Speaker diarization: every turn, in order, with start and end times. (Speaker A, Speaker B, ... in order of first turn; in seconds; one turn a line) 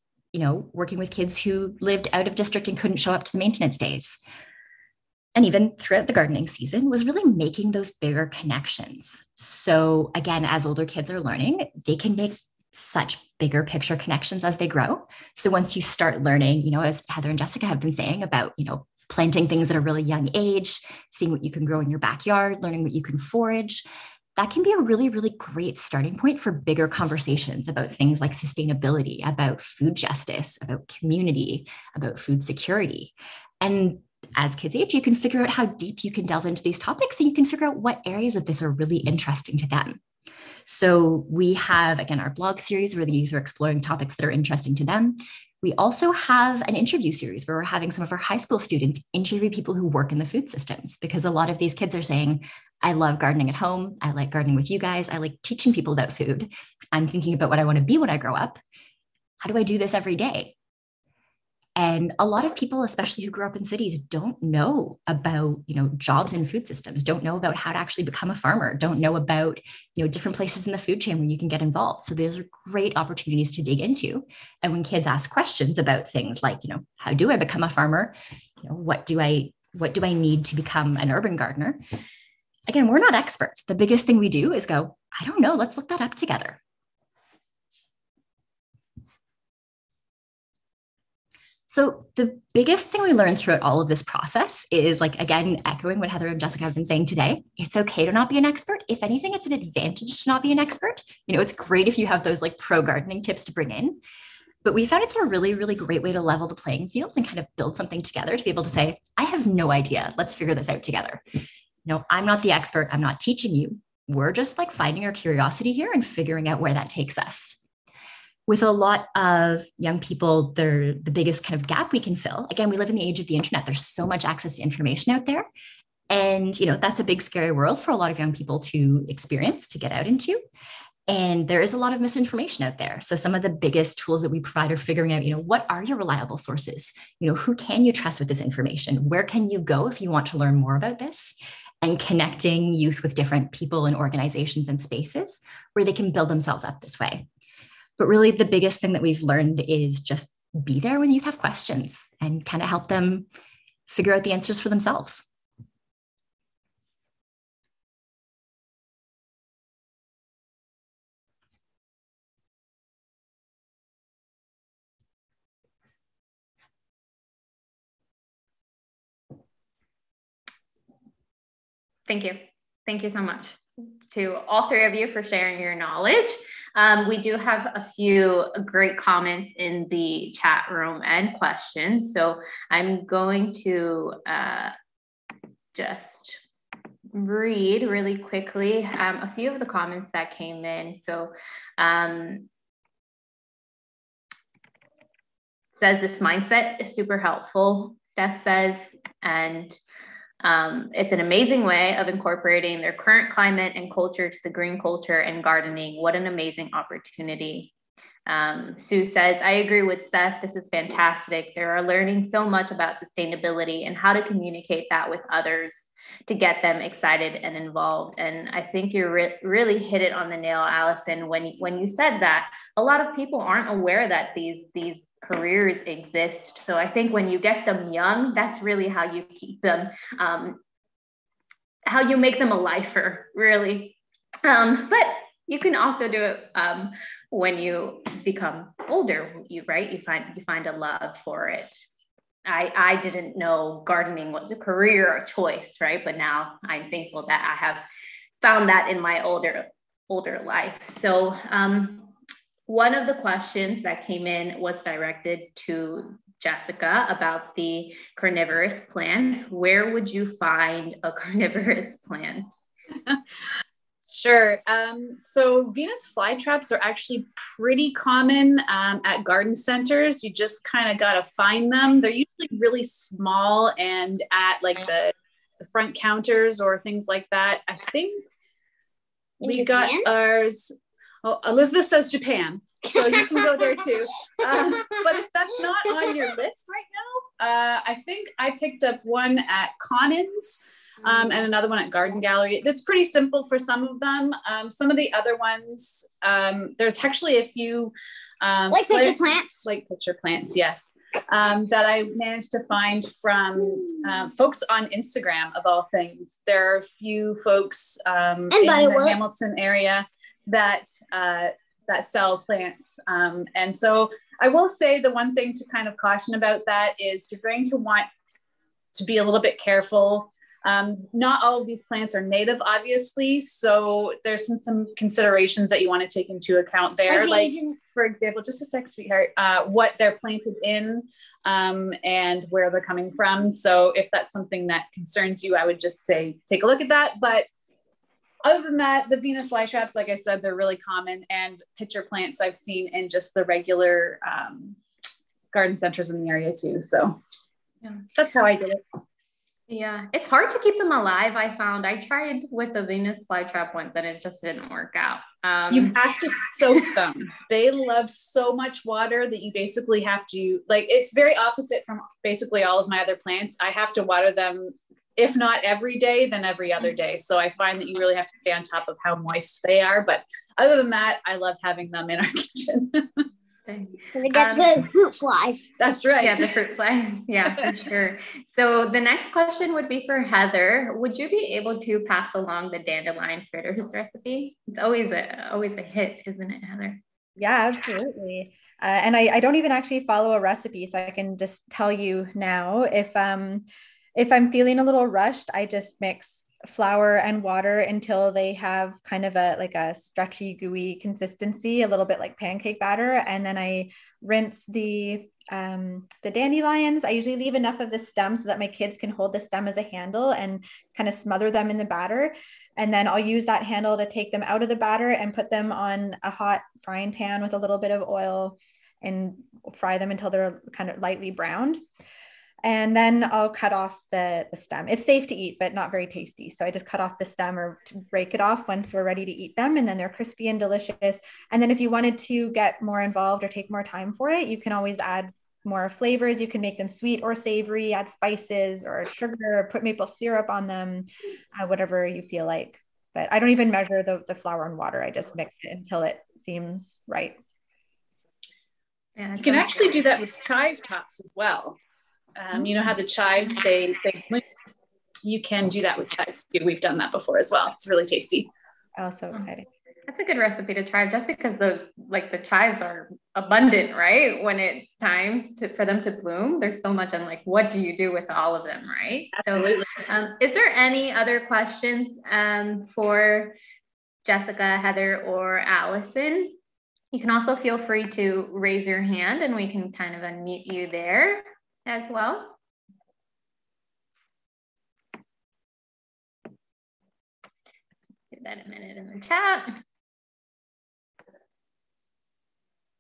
Speaker A: 0.3-4.2
Speaker A: 5.3-23.8
Speaker A: 24.4-40.0
Speaker A: 40.7-58.6
Speaker A: 59.4-60.5
Speaker A: 61.8-81.8
Speaker A: 82.7-86.6
Speaker A: 91.7-104.0
Speaker A: 104.6-111.2
Speaker A: 111.8-117.6
Speaker A: 118.5-125.5
Speaker A: 126.1-130.4
Speaker A: 131.1-147.3
Speaker A: 148.0-153.3
Speaker A: 153.9-155.3
Speaker B: 172.1-184.8
Speaker B: 185.8-186.4
Speaker B: 187.1-192.5
Speaker B: 195.8-199.8
Speaker B: 200.4-207.7
Speaker B: 208.3-230.6
Speaker B: 231.9-241.7
Speaker B: 242.5-247.8
Speaker B: 248.4-252.1
Speaker B: 252.7-262.5
Speaker C: 264.1-278.2
Speaker C: 279.4-280.7
Speaker D: 279.4-280.1
Speaker C: 281.2-318.1
Speaker D: 282.9-283.7
Speaker D: 284.7-285.0
Speaker D: 298.7-299.7
Speaker D: 308.5-309.3
Speaker C: 318.9-337.5
Speaker D: 327.1-327.8
Speaker C: 338.4-344.8
Speaker C: 345.5-347.2
Speaker C: 348.2-348.8
Speaker B: 349.7-355.9
Speaker C: 355.7-373.2
Speaker B: 373.7-374.7
Speaker D: 374.1-375.7
Speaker C: 375.8-376.6
Speaker B: 376.2-387.0
Speaker E: 387.4-421.8
Speaker E: 422.6-447.4
Speaker B: 449.2-450.1
Speaker C: 449.4-451.8
Speaker C: 452.4-454.4
Speaker C: 455.2-458.5
Speaker E: 459.0-459.7
Speaker B: 460.1-473.6
Speaker B: 474.3-476.6
Speaker B: 477.1-482.6
Speaker B: 488.3-489.8